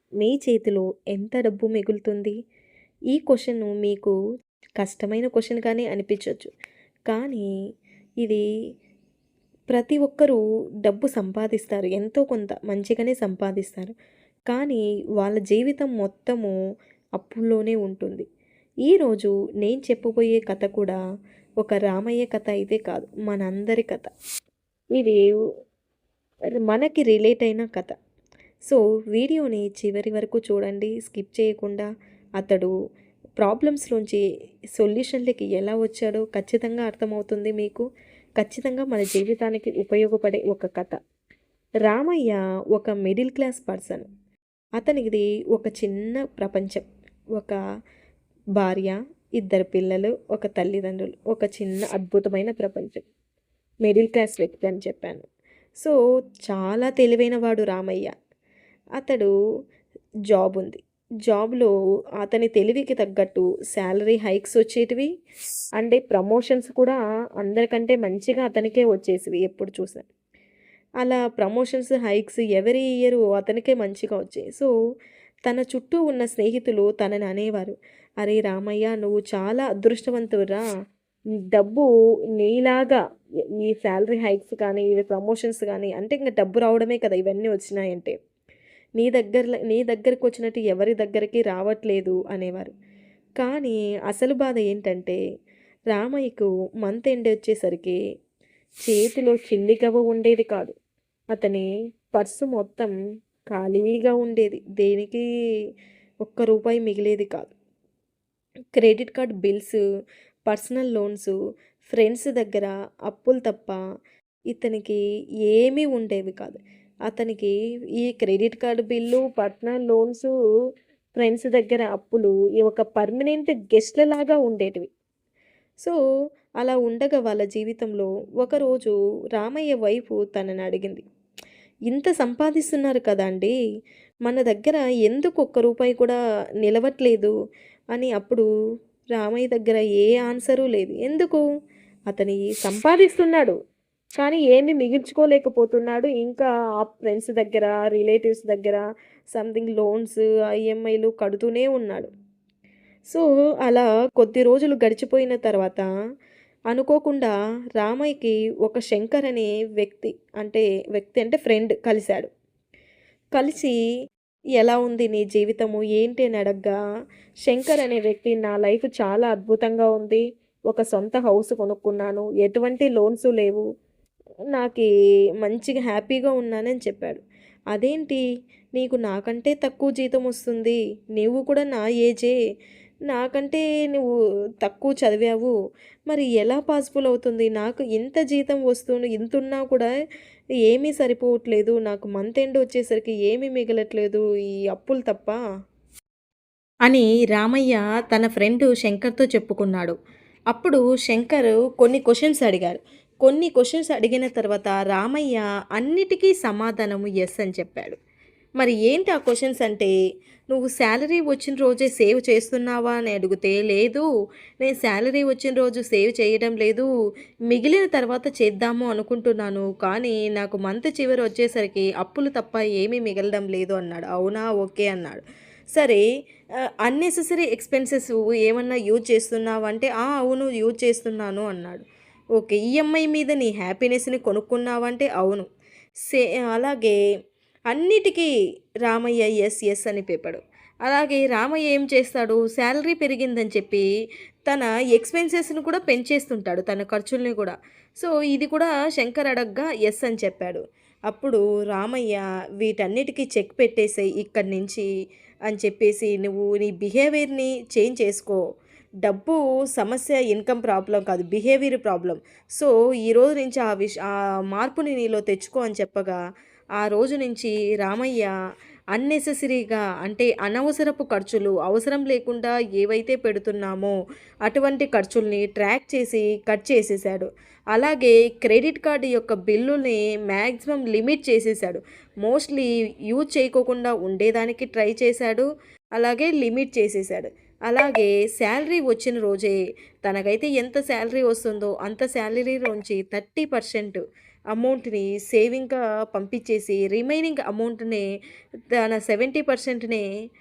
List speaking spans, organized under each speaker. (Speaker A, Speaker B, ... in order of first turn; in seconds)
Speaker A: 0.2-2.3, 3.1-4.1, 4.8-6.5, 7.1-7.5, 9.7-13.9, 14.5-16.5, 17.2-18.2, 18.9-21.0, 21.6-24.1, 24.9-25.2, 26.6-27.9, 28.6-31.9, 32.4-32.7, 33.4-34.2, 34.8-37.8, 38.4-41.0, 41.9-44.0, 44.8-47.6, 48.6-53.0, 53.8-55.2, 56.5-58.1, 59.0-59.3, 60.3-65.1, 65.8-70.0, 71.0-74.7, 75.5-80.6, 81.5-83.0, 83.6-88.1, 89.0-92.7, 93.4-95.2, 95.9-98.0, 98.8-100.7, 101.3-102.9, 103.5-105.2, 106.2-107.5, 108.7-109.8, 110.5-111.3, 111.8-113.8, 114.5-120.3, 121.2-124.9, 126.6-131.0, 131.9-133.5, 134.2-136.1, 136.6-137.3, 137.9-138.4, 139.2-141.4, 142.1-143.6, 144.2-152.1, 153.1-155.8, 156.7-162.3, 163.3-163.7, 164.6-166.8, 167.4-173.6, 174.5-174.9, 175.4-177.2, 177.7-178.2, 178.8-182.3, 183.1-184.1, 184.6-185.5, 186.1-189.9, 190.6-195.4, 196.9-199.9, 200.5-208.0, 208.6-209.9, 210.5-214.0, 214.6-216.9, 217.5-225.2, 225.7-226.0, 226.8-231.8, 232.4-235.4, 236.0-236.9, 237.7-238.3, 238.8-243.8, 244.5-254.8, 255.5-258.4, 259.0-266.1, 266.8-268.3, 268.9-273.9, 274.4-285.4, 286.0-294.0, 294.5-298.0, 298.8-300.0